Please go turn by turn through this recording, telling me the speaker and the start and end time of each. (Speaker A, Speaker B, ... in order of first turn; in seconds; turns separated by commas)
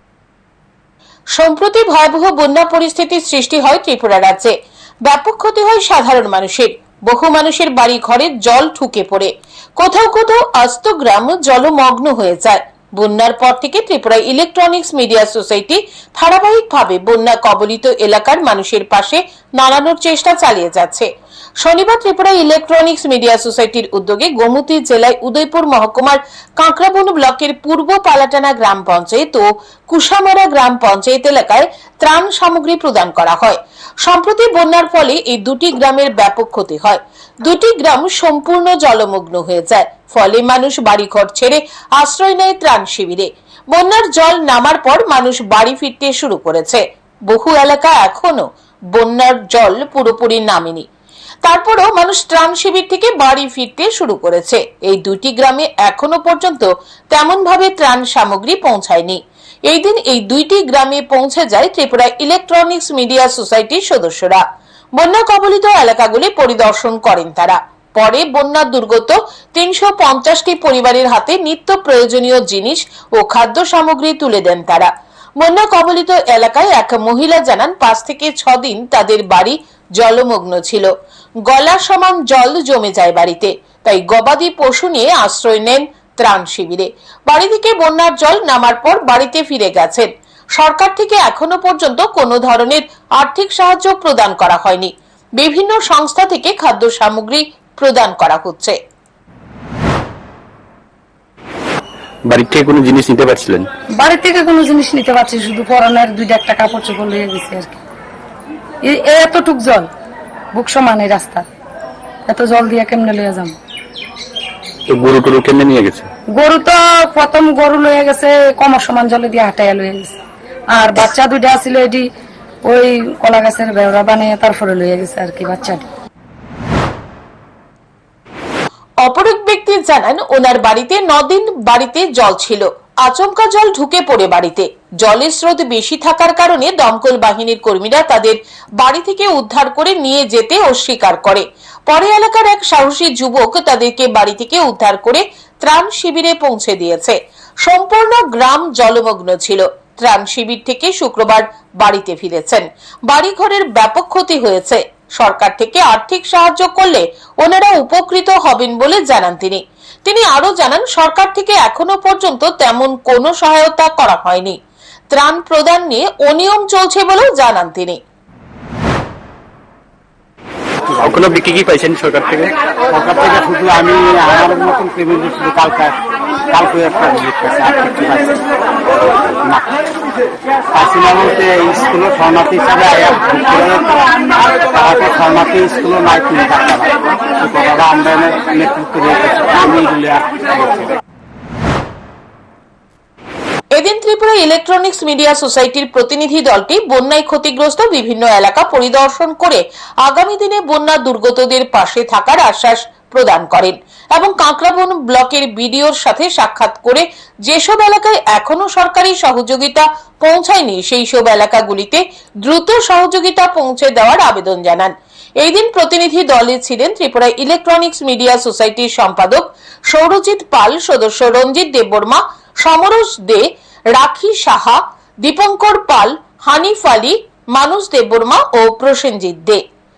Speaker A: 1.4-4.5, Speaker A: 5.0-21.1, Speaker A: 21.6-50.9, Speaker A: 51.4-64.4, Speaker A: 65.0-80.9, Speaker A: 81.5-98.8, Speaker B: 102.3-103.7, Speaker C: 104.0-107.8, Speaker C: 108.9-109.9, Speaker C: 110.6-111.5, Speaker C: 112.3-113.6, Speaker B: 114.9-116.1, Speaker C: 116.4-120.2, Speaker C: 120.7-122.0, Speaker C: 122.7-125.8, Speaker A: 129.0-164.6, Speaker A: 165.1-168.0, Speaker B: 171.0-172.5, Speaker D: 172.9-176.0, Speaker D: 176.5-178.4, Speaker D: 179.4-179.7, Speaker D: 180.7-191.0, Speaker A: 193.8-229.6